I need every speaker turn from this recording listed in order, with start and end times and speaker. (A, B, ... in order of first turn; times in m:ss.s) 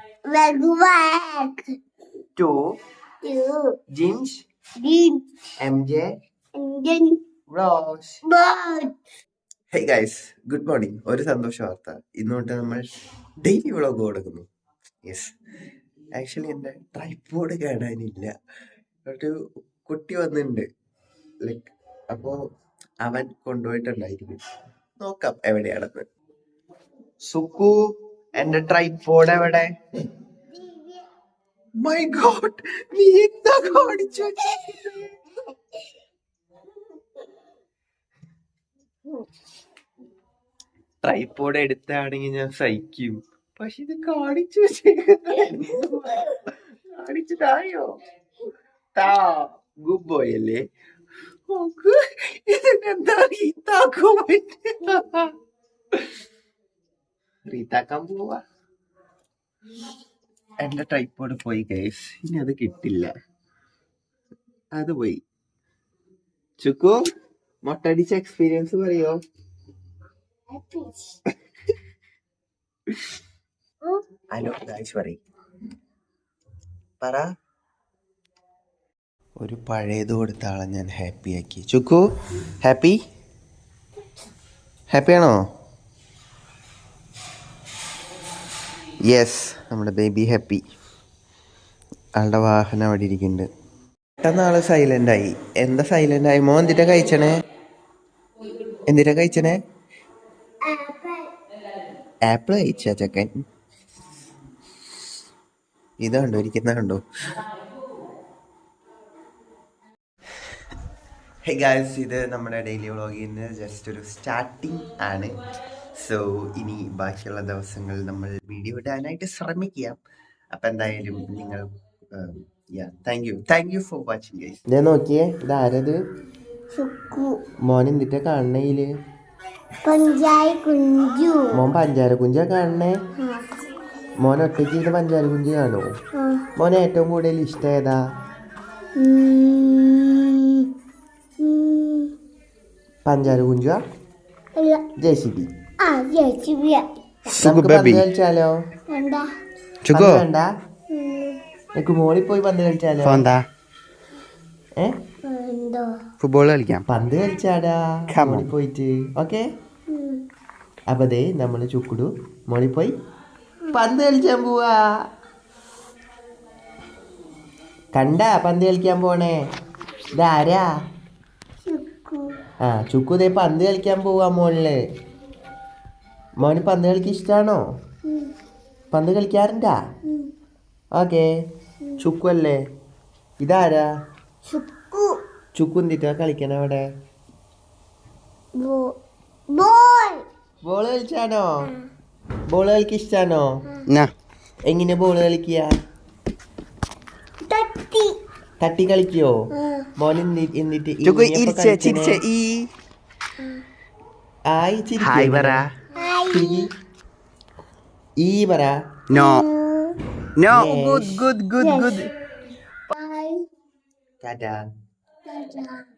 0:00.3-0:01.7 A
0:03.2-0:03.8 A
0:04.0-0:04.4 B
0:04.8-0:05.2 A
0:05.6-0:06.0 B
0:06.6-0:07.2 A
0:07.5-0:08.2 B
0:08.2-0:08.9 A
0:09.7-0:12.8 B
0:13.4-0:14.4 B
0:15.0-0:15.3 B
0:16.2-0:18.3 B
0:19.1-0:19.3 B
0:19.9-0:20.6 B
0:21.4-0:22.4 B
0:23.0-0:24.4 B
0:25.0-0:26.0 B
0:27.3-0:27.8 B
0:28.4-0:29.7 B
0:30.5-0:31.0 A
0:31.8-0:35.1 B
0:41.0-0:47.9 B
0:49.0-0:50.6 B
0:51.5-0:55.3 B
0:57.5-0:58.4 B
1:00.6-1:03.1 B
1:04.7-1:05.2 B
1:06.6-1:07.0 B
1:07.6-1:09.1 B
1:10.5-1:11.2 A
1:14.3-1:15.2 B
1:19.4-1:22.0 B
1:22.6-1:23.0 B
1:24.9-1:25.3 B
1:29.1-1:30.6 B
1:32.2-1:33.5 B
1:34.2-1:37.3 B
1:38.9-1:39.6 B
1:40.6-1:41.3 A
1:42.3-1:43.3 B
1:46.0-1:47.0 B
1:51.4-1:55.3 B
1:56.0-2:00.0 B
2:00.5-2:01.6 B
2:02.2-2:06.0 B
2:06.7-2:07.4 A
2:07.7-2:08.9 B
2:09.8-2:11.6 A
2:11.5-2:13.0 B
2:13.2-2:13.4 A
2:14.2-2:15.8 B
2:16.2-2:16.4 A
2:16.6-2:18.0 B
2:19.0-2:20.7 A
2:21.4-2:22.1 A
2:23.0-2:23.8 B
2:24.6-2:24.9 A
2:25.0-2:25.5 B
2:25.8-2:26.9 A
2:27.3-2:28.0 C
2:27.4-2:28.5 B
2:28.9-2:29.3 A
2:29.8-2:30.2 C
2:29.9-2:30.5 B
2:30.9-2:31.4 A
2:31.8-2:33.2 B
2:33.0-2:33.4 C
2:35.2-2:35.9 A
2:36.2-2:36.8 C
2:36.8-2:39.4 B
2:38.1-2:38.5 C
2:39.9-2:40.2 A
2:40.9-2:42.9 B
2:43.7-2:44.8 B
2:47.9-2:49.4 B
2:50.2-2:50.7 B
2:51.6-2:52.3 A
2:52.6-2:54.8 B
2:56.4-2:57.6 B
2:58.0-2:58.3 A
2:58.9-2:59.8 B
3:01.0-3:01.2 B
3:02.0-3:02.6 B
3:03.4-3:03.9 B
3:04.5-3:05.2 A
3:05.6-3:06.8 B
3:08.6-3:09.0 A
3:09.5-3:10.2 A
3:10.6-3:11.5 B
3:12.5-3:13.5 B
3:14.7-3:15.7 B
3:17.4-3:18.2 A
3:18.6-3:19.3 B
3:19.6-3:19.9 A
3:20.0-3:22.2 B
3:21.0-3:22.7 C
3:24.5-3:25.6 B
3:25.0-3:25.6 C
3:25.9-3:26.6 A
3:26.3-3:26.7 B
3:28.2-3:28.8 B
3:29.1-3:29.4 C
3:29.1-3:30.0 A
3:30.4-3:32.1 C
3:30.5-3:31.2 B
3:31.6-3:32.1 A
3:32.9-3:33.4 A
3:34.2-3:34.6 B
3:35.3-3:35.8 A